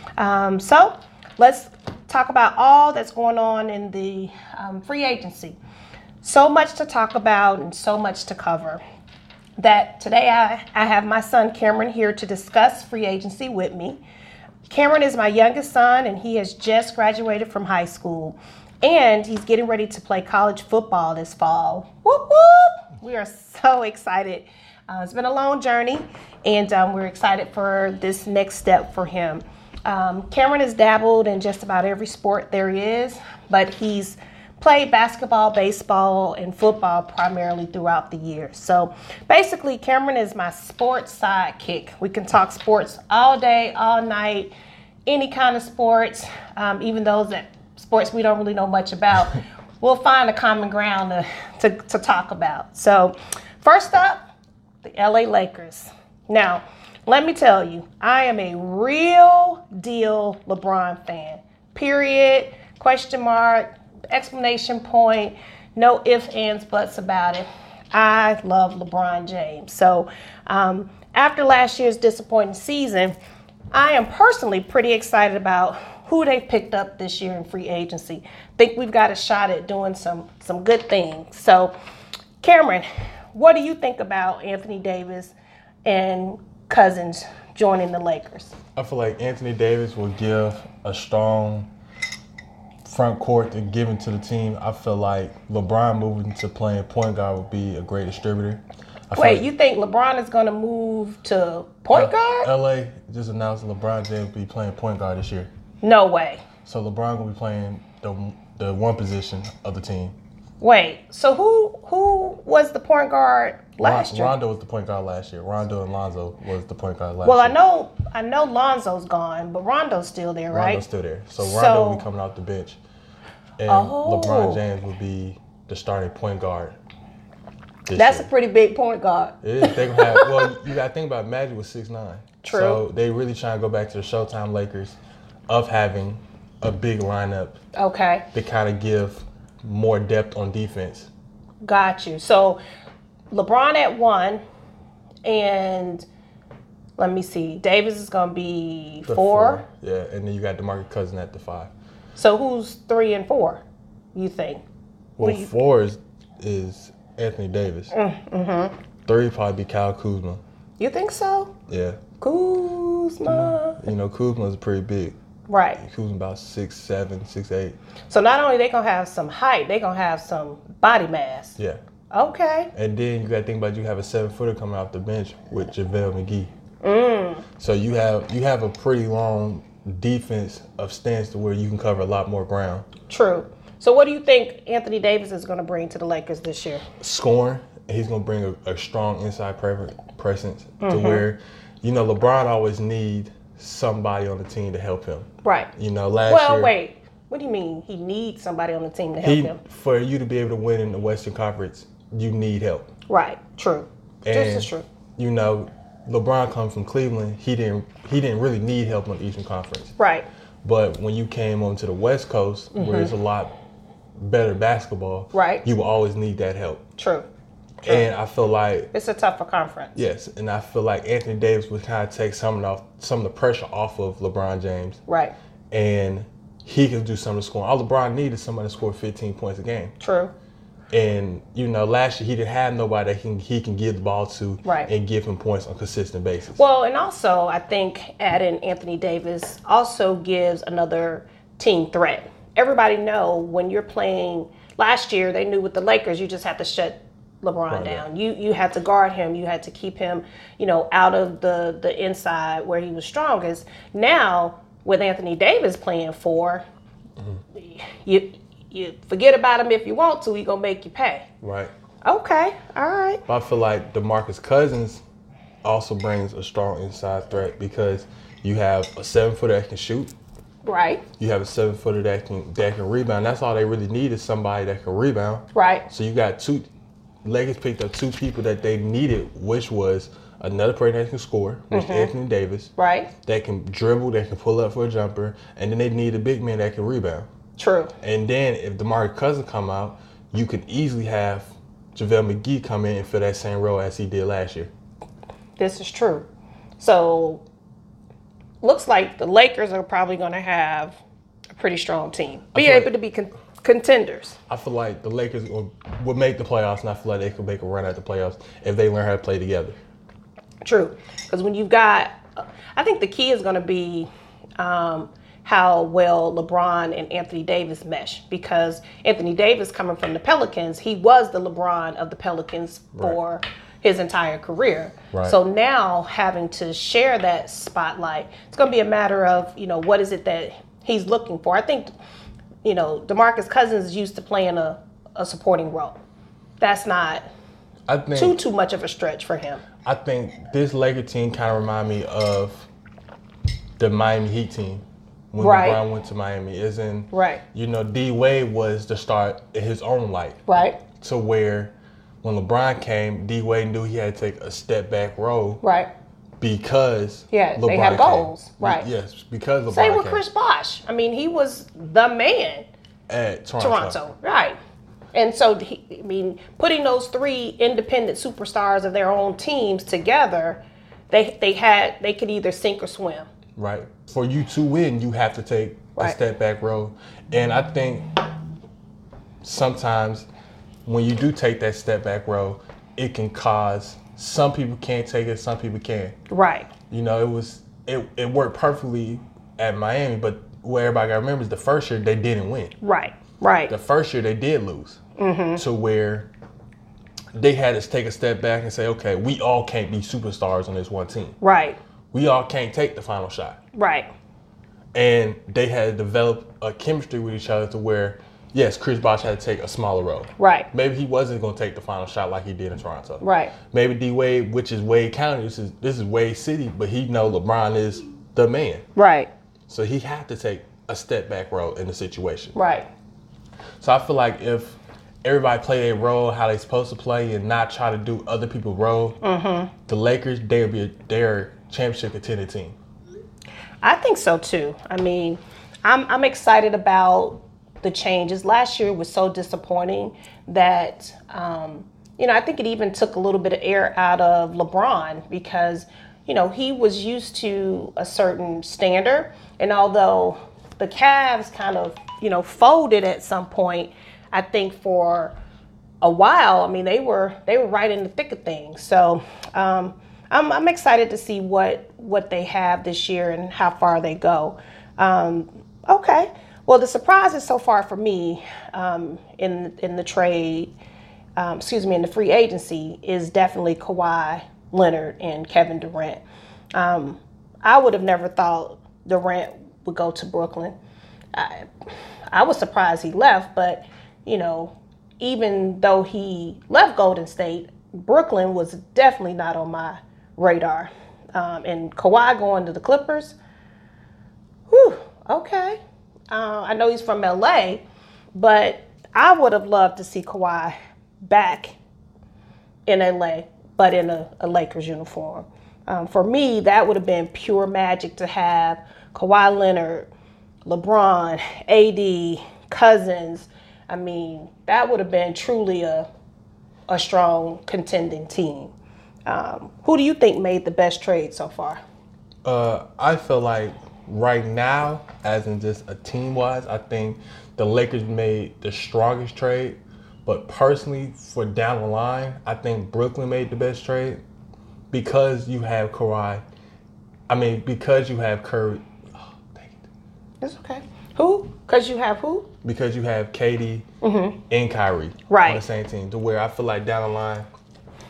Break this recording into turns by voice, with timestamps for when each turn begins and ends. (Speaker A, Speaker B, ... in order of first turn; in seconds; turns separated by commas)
Speaker A: 0.2-5.6, Speaker A: 6.2-8.8, Speaker A: 9.6-14.0, Speaker A: 14.7-44.5, Speaker A: 45.0-54.3, Speaker A: 54.8-73.2, Speaker A: 73.7-81.7, Speaker A: 82.4-88.5, Speaker B: 88.8-91.7, Speaker B: 92.8-99.5, Speaker A: 99.1-102.5, Speaker B: 101.9-105.5, Speaker A: 105.8-106.4, Speaker B: 106.6-110.1, Speaker A: 110.6-114.3, Speaker B: 113.8-117.6, Speaker A: 117.2-120.8, Speaker B: 120.5-122.8, Speaker A: 121.4-122.0, Speaker B: 123.6-126.8, Speaker A: 123.7-124.6, Speaker B: 127.9-128.3, Speaker A: 128.0-130.6, Speaker B: 129.4-135.0, Speaker A: 132.4-132.8, Speaker B: 135.5-137.6, Speaker A: 137.7-138.2, Speaker B: 138.3-141.1, Speaker A: 141.6-142.6, Speaker A: 143.3-144.4, Speaker A: 145.2-146.1, Speaker A: 147.0-149.6, Speaker B: 149.1-151.7, Speaker A: 152.1-153.6, Speaker A: 154.1-154.6, Speaker B: 155.2-157.9, Speaker A: 155.2-155.5, Speaker A: 157.9-158.7, Speaker B: 159.1-160.4, Speaker A: 160.8-161.5, Speaker B: 161.7-162.0, Speaker A: 162.2-163.8, Speaker B: 163.2-165.2, Speaker A: 165.5-165.8, Speaker B: 165.8-167.8, Speaker A: 168.1-171.6, Speaker A: 172.1-172.7, Speaker B: 172.7-176.5, Speaker A: 176.8-177.4, Speaker B: 177.6-182.9, Speaker A: 183.1-186.8, Speaker B: 187.0-196.7, Speaker A: 190.8-191.2, Speaker A: 195.4-195.7, Speaker A: 196.3-199.6, Speaker B: 199.2-202.9, Speaker A: 203.1-204.9, Speaker B: 204.2-209.9, Speaker A: 210.0-210.2, Speaker B: 210.6-213.5, Speaker A: 212.7-213.1, Speaker B: 214.2-216.8, Speaker A: 215.3-215.6, Speaker A: 217.0-217.3, Speaker B: 217.8-218.9, Speaker A: 218.9-220.0, Speaker B: 219.9-225.0, Speaker A: 225.1-225.3, Speaker B: 225.7-229.9, Speaker A: 230.0-230.3, Speaker B: 230.9-236.6, Speaker A: 234.6-234.9, Speaker A: 236.6-256.6, Speaker B: 247.7-248.0, Speaker A: 257.5-261.3, Speaker B: 261.4-261.7, Speaker A: 262.0-263.2, Speaker B: 263.3-265.0, Speaker B: 265.6-270.1, Speaker A: 270.6-271.0, Speaker B: 271.2-276.7, Speaker A: 275.5-275.9, Speaker B: 277.2-282.7, Speaker A: 281.7-282.1, Speaker A: 282.8-283.1, Speaker B: 283.2-287.3, Speaker A: 287.6-287.9, Speaker B: 288.0-294.7, Speaker A: 295.6-296.2, Speaker A: 296.8-297.4, Speaker A: 298.6-301.0, Speaker A: 301.5-304.4, Speaker B: 302.5-302.9, Speaker B: 304.5-309.8, Speaker A: 310.6-331.9, Speaker B: 325.1-325.4, Speaker A: 332.6-336.0, Speaker A: 336.6-337.2, Speaker B: 337.9-338.4, Speaker A: 338.1-339.6, Speaker B: 339.8-342.7, Speaker B: 343.8-350.4, Speaker A: 345.4-345.8, Speaker A: 347.1-347.4, Speaker A: 350.5-350.8, Speaker B: 350.9-355.6, Speaker A: 355.6-355.9, Speaker B: 356.4-360.2, Speaker A: 357.3-358.9, Speaker A: 359.7-362.6, Speaker B: 363.1-364.0, Speaker A: 363.6-364.6, Speaker A: 365.1-373.3, Speaker B: 373.6-378.1, Speaker B: 379.4-380.3, Speaker B: 380.9-386.1, Speaker A: 386.3-386.7, Speaker B: 386.9-392.8, Speaker A: 392.8-393.7, Speaker B: 393.7-395.0, Speaker A: 395.2-395.6, Speaker B: 395.6-396.3, Speaker B: 397.3-401.4, Speaker A: 401.4-401.8, Speaker B: 402.1-403.6, Speaker A: 403.7-404.1, Speaker B: 404.9-418.8, Speaker A: 410.4-410.7, Speaker A: 413.2-413.5, Speaker A: 418.9-419.3, Speaker B: 419.7-422.5, Speaker A: 422.5-422.9, Speaker B: 423.8-429.2, Speaker A: 429.2-429.7, Speaker B: 429.9-432.8, Speaker A: 433.8-455.3, Speaker A: 456.0-470.7, Speaker A: 471.4-476.2, Speaker A: 476.7-480.7, Speaker A: 481.3-481.7, Speaker A: 482.3-493.4, Speaker A: 494.7-495.8, Speaker A: 496.3-497.8, Speaker A: 498.3-501.8, Speaker A: 502.9-510.1, Speaker A: 510.6-516.1, Speaker A: 516.9-518.7, Speaker A: 519.3-521.8, Speaker B: 522.4-534.2, Speaker B: 534.9-536.4, Speaker B: 537.3-539.9, Speaker A: 540.4-542.5, Speaker B: 542.6-543.9, Speaker A: 544.0-544.4, Speaker B: 544.5-547.5, Speaker A: 545.3-545.6